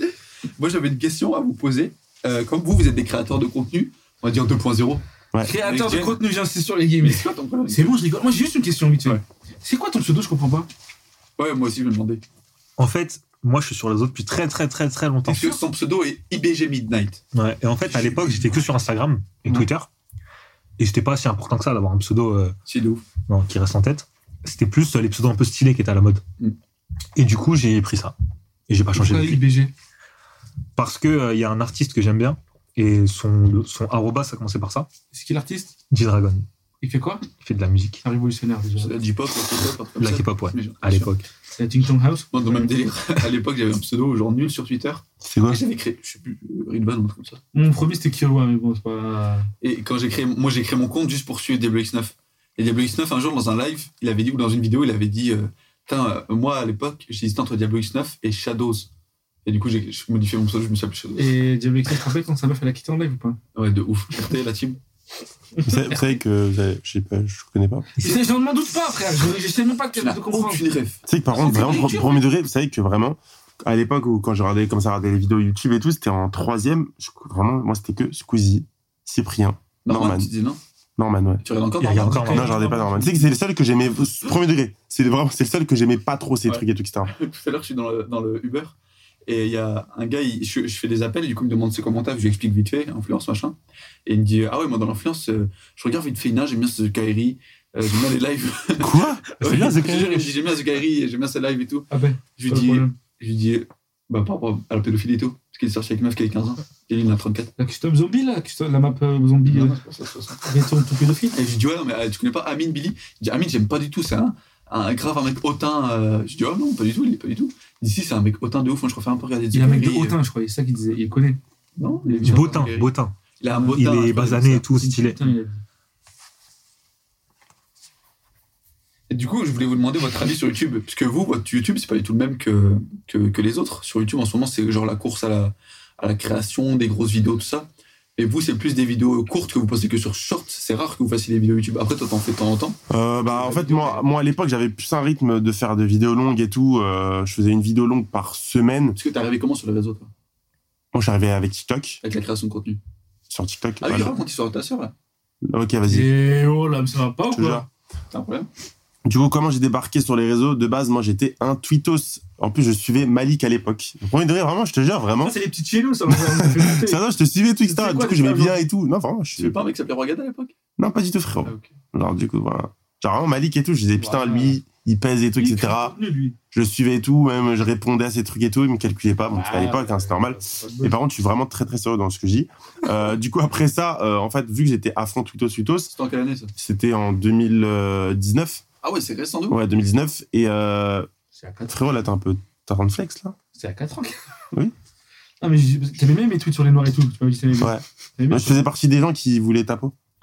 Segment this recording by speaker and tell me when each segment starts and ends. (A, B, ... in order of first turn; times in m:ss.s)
0:00.6-0:05.0 A
0:05.4-0:10.7 B
0:05.6-0:06.2 A
0:07.0-0:08.0 A
0:11.4-0:12.2 A
0:12.8-0:15.6 C
0:15.2-0:17.2 A
0:17.3-0:19.9 C
0:17.9-0:18.6 A
0:20.8-0:22.6 C
0:22.7-0:23.0 A
0:23.3-0:26.2 C
0:27.2-0:28.2 C
0:28.7-0:29.4 C
0:29.0-0:29.7 B
0:30.8-0:34.9 C
0:35.1-0:35.8 B
0:35.9-0:36.5 C
0:36.8-0:37.3 B
0:37.4-0:38.0 C
0:38.0-0:38.9 B
0:38.8-0:41.1 A
0:40.0-0:41.3 C
0:41.5-0:42.7 B
0:42.3-0:47.4 A
0:45.2-0:45.6 D
0:47.5-0:49.5 B
0:49.6-0:58.9 A
0:59.4-1:01.3 A
1:01.2-1:03.4 B
1:03.6-1:04.8 A
1:05.6-1:06.2 B
1:05.6-1:08.0 D
1:08.0-1:10.7 B
1:09.9-1:12.0 A
1:11.1-1:20.3 D
1:11.3-1:12.2 B
1:19.8-1:20.6 A
1:21.0-1:21.4 D
1:21.4-1:22.5 A
1:21.8-1:22.6 C
1:21.8-1:23.4 B
1:22.3-1:27.1 D
1:26.5-1:28.8 A
1:29.3-1:47.5 A
1:38.8-1:40.3 D
1:41.9-1:43.0 B
1:47.6-1:49.8 B
1:49.5-1:50.4 A
1:50.4-1:51.4 B
1:51.3-2:00.2 A
1:59.5-2:01.4 B
2:01.8-2:04.6 A
2:02.0-2:02.6 B
2:02.3-2:05.3 C
2:04.7-2:05.6 B
2:09.1-2:24.0 A
2:22.9-2:29.0 D
2:29.0-2:30.1 A
2:30.9-2:32.0 D
2:32.0-2:32.8 A
2:33.3-2:34.2 D
2:33.8-2:34.9 A
2:35.4-2:36.1 D
2:35.9-2:37.7 B
2:37.3-2:37.7 D
2:38.1-2:38.5 A
2:39.0-2:45.4 D
2:45.2-2:47.0 B
2:46.1-2:49.6 D
2:47.7-2:48.6 B
2:49.4-2:50.5 A
2:50.8-2:56.0 D
2:51.4-2:51.7 A
2:54.0-2:54.6 B
2:55.4-2:56.4 B
2:56.5-3:05.9 D
2:59.3-3:01.0 B
3:05.9-3:06.5 A
3:06.6-3:08.6 D
3:08.8-3:09.6 A
3:09.5-3:11.1 D
3:11.3-3:11.8 B
3:11.7-3:13.4 D
3:13.6-3:14.2 B
3:15.4-3:18.7 B
3:17.6-3:19.9 D